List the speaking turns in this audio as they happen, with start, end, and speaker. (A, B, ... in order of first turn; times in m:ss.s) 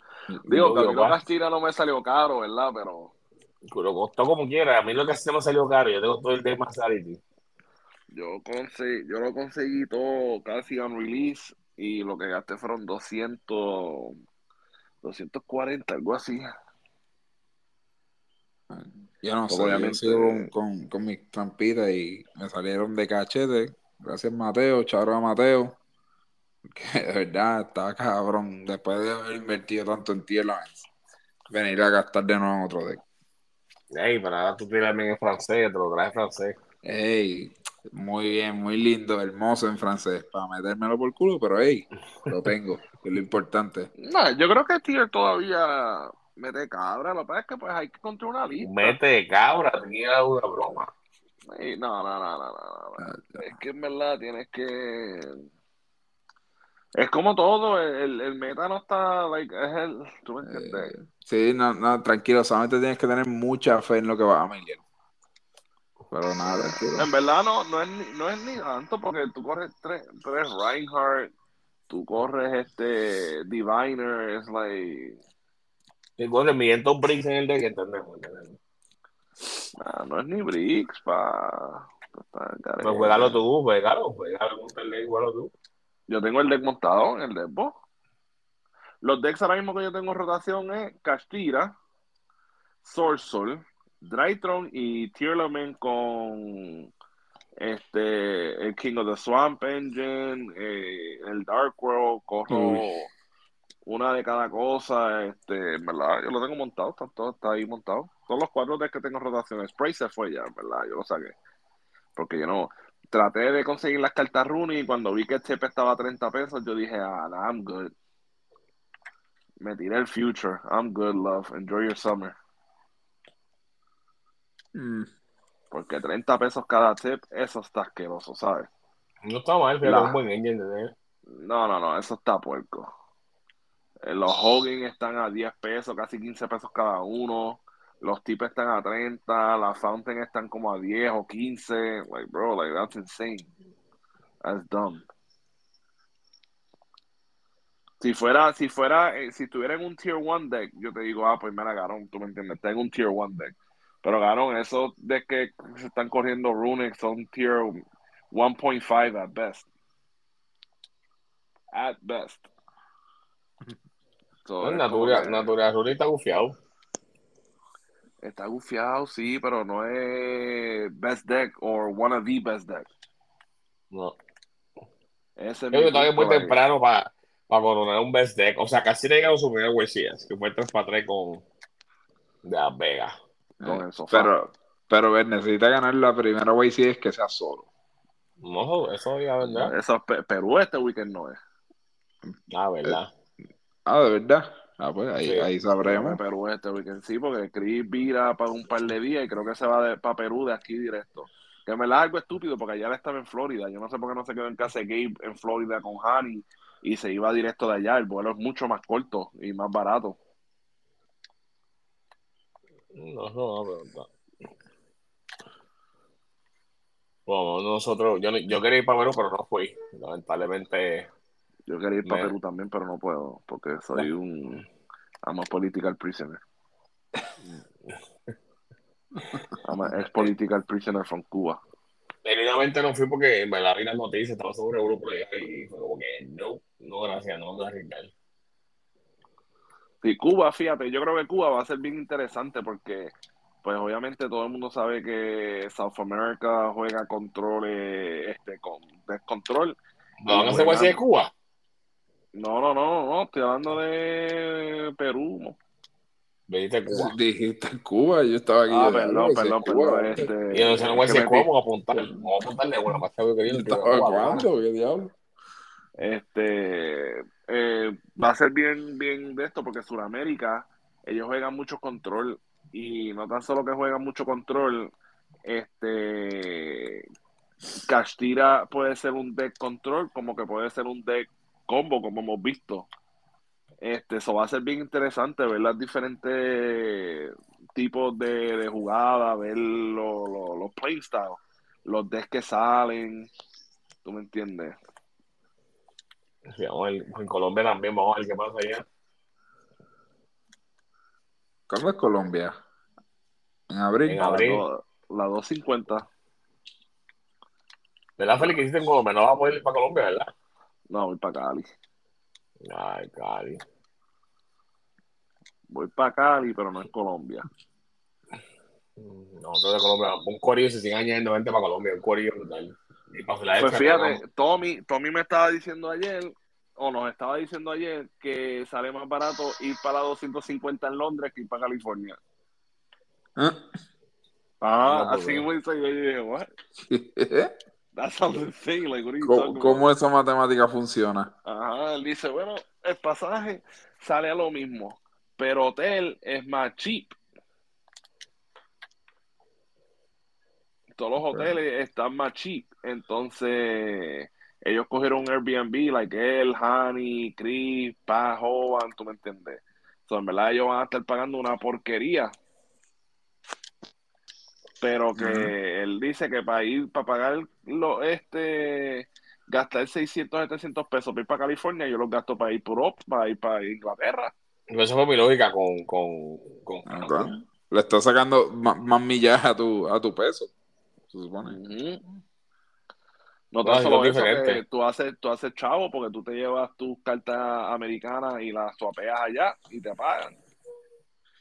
0:00.5-0:03.1 A
0:00.5-0:01.2 B
0:03.7-0:07.2 B
0:08.1-0:14.1 A
0:15.0-0:16.5 A
0:18.7-0:25.8 C
0:19.5-0:20.5 A
0:26.7-0:30.8 C
0:31.5-0:33.0 C
0:33.9-0:36.6 B
0:36.8-0:43.9 C
0:44.0-0:49.0 A
0:48.6-0:50.9 B
0:51.5-0:55.4 A
0:53.0-0:53.4 C
0:57.0-1:00.9 A
1:00.4-1:04.8 C
1:06.1-1:07.1 C
1:06.5-1:11.3 A
1:11.9-1:15.2 A
1:16.2-1:18.6 B
1:19.8-1:23.3 A
1:22.8-1:25.5 B
1:26.1-1:27.7 A
1:29.0-1:31.8 A
1:32.8-1:36.9 A
1:37.6-1:43.1 A
1:42.5-1:42.8 C
1:43.8-1:51.3 A
1:52.2-1:57.9 A
1:59.6-2:02.4 A
2:04.7-2:05.1 C
2:05.7-2:08.7 A
2:09.2-2:10.9 B
2:09.8-2:10.2 A
2:11.3-2:12.9 A
2:14.0-2:23.5 A
2:24.4-2:25.0 A
2:28.0-2:37.8 A
2:38.3-2:39.7 A
2:41.7-2:42.5 A
2:44.4-2:45.5 A
2:44.6-2:46.6 B
2:48.2-2:52.9 A
2:53.9-2:54.2 B
2:55.4-2:56.6 A
2:55.7-3:01.4 B
3:02.4-3:03.1 B
3:03.6-3:07.7 C
3:03.6-3:04.3 A
3:08.4-3:09.7 B
3:09.5-3:11.4 A
3:12.5-3:13.1 B
3:13.8-3:16.2 C
3:15.2-3:15.5 B
3:15.8-3:30.2 A
3:32.9-3:34.1 B
3:37.3-3:41.1 B
3:41.7-3:44.6 A
3:42.0-3:42.3 B
3:45.2-3:46.4 A
3:49.6-3:51.6 A
3:50.0-3:50.3 B
3:52.2-3:58.1 B
4:00.0-4:03.1 A
4:03.6-4:09.8 A
4:10.2-4:11.3 B
4:10.3-4:11.0 A
4:12.3-4:15.6 A
4:16.5-4:17.1 B
4:16.9-4:20.3 C
4:18.7-4:21.5 A
4:20.5-4:24.4 B
4:23.5-4:25.1 C
4:26.0-4:34.9 A
4:35.4-4:37.0 A
4:37.9-4:42.9 A
4:43.8-4:53.3 A
4:54.0-4:54.8 A
4:56.5-4:58.8 B
5:01.7-5:02.6 C
5:03.7-5:04.2 C
5:04.0-5:04.6 B
5:04.2-5:06.0 A
5:08.2-5:10.3 B
5:10.9-5:11.6 A
5:12.6-5:13.6 B
5:15.7-5:17.4 A
5:19.0-5:24.2 B
5:23.6-5:32.2 A
5:33.4-5:33.6 C
5:34.6-5:36.5 A
5:34.8-5:35.5 B
5:36.9-5:37.5 C
5:38.0-5:39.8 A
5:39.2-5:41.3 C
5:41.4-5:47.2 A
5:51.0-6:02.3 A
6:04.8-6:14.3 A
6:05.2-6:05.5 C
6:14.7-6:17.4 B
6:16.9-6:20.5 C
6:21.1-6:21.6 C
6:21.4-6:22.0 A
6:23.5-6:30.4 A
6:23.6-6:24.6 B